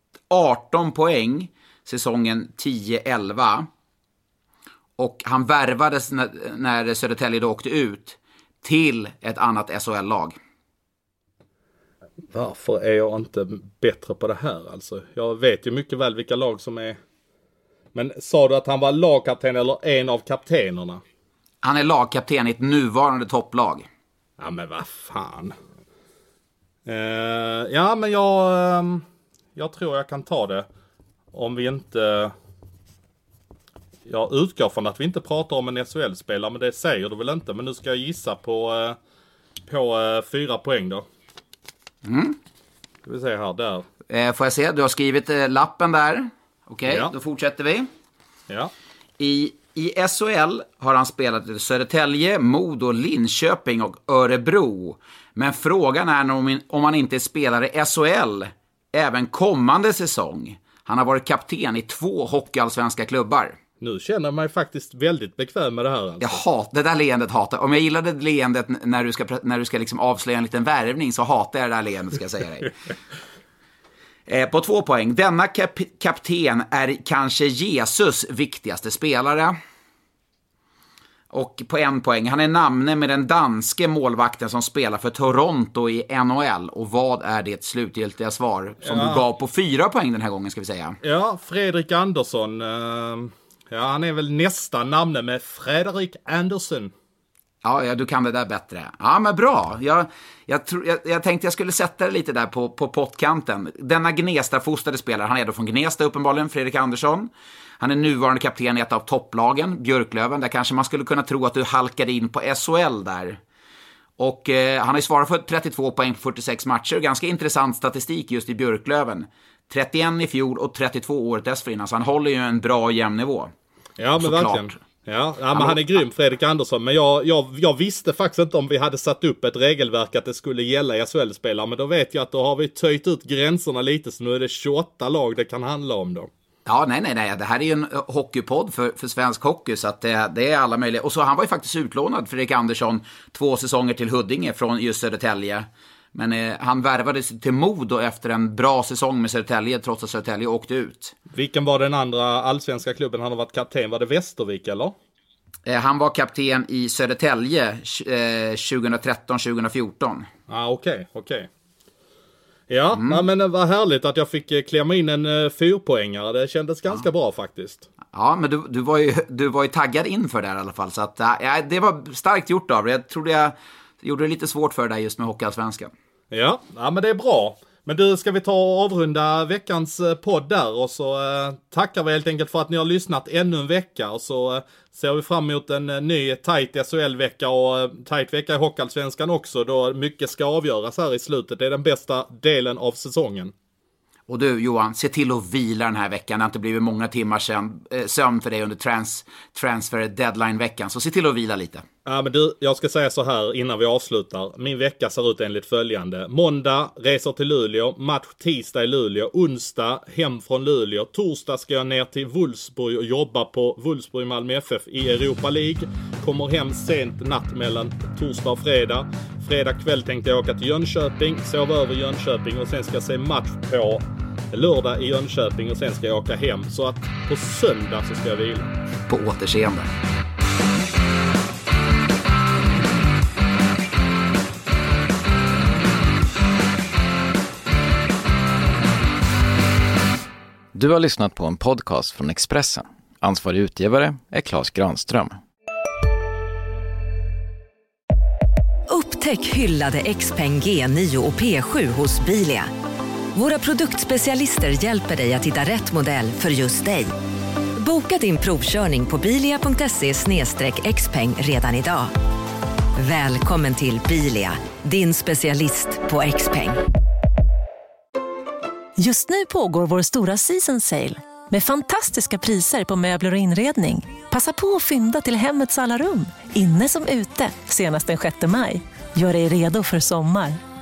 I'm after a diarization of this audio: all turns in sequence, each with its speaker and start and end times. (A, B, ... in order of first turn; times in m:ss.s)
0:00.3-0:03.7 A
0:05.0-0:10.4 A
0:12.3-0:17.0 B
0:17.9-0:21.0 B
0:21.6-0:23.9 A
0:24.4-0:25.5 B
0:26.8-0:29.0 B
0:29.6-0:30.6 B
0:31.3-0:32.3 B
0:34.1-0:39.0 B
0:39.7-0:41.0 B
0:42.0-0:42.4 A
0:43.0-0:43.8 B
0:44.1-0:47.9 A
0:46.8-0:47.1 B
0:49.2-1:03.6 A
1:03.8-1:06.4 B
1:06.2-1:12.7 A
1:14.3-1:19.6 A
1:21.3-1:31.0 A
1:28.8-1:29.2 B
1:31.0-1:36.9 B
1:37.6-1:53.4 A
1:54.2-2:03.5 A
2:04.0-2:16.3 B
2:04.2-2:04.8 A
2:05.5-2:05.9 A
2:16.6-2:31.1 A
2:31.3-2:35.0 B
2:35.6-2:40.3 A
2:40.5-2:41.5 B
2:42.7-2:47.9 B
2:42.9-2:43.2 A
2:48.1-2:55.9 A
2:56.3-3:13.5 B
3:14.3-3:21.8 A
3:22.0-3:48.7 B
3:49.1-3:49.9 A
4:00.7-4:05.4 C
4:08.9-4:12.7 D
4:13.3-4:17.1 D
4:17.8-4:22.1 D
4:23.0-4:26.8 D
4:29.0-4:31.1 E
4:32.0-4:33.8 E
4:34.3-4:40.5 E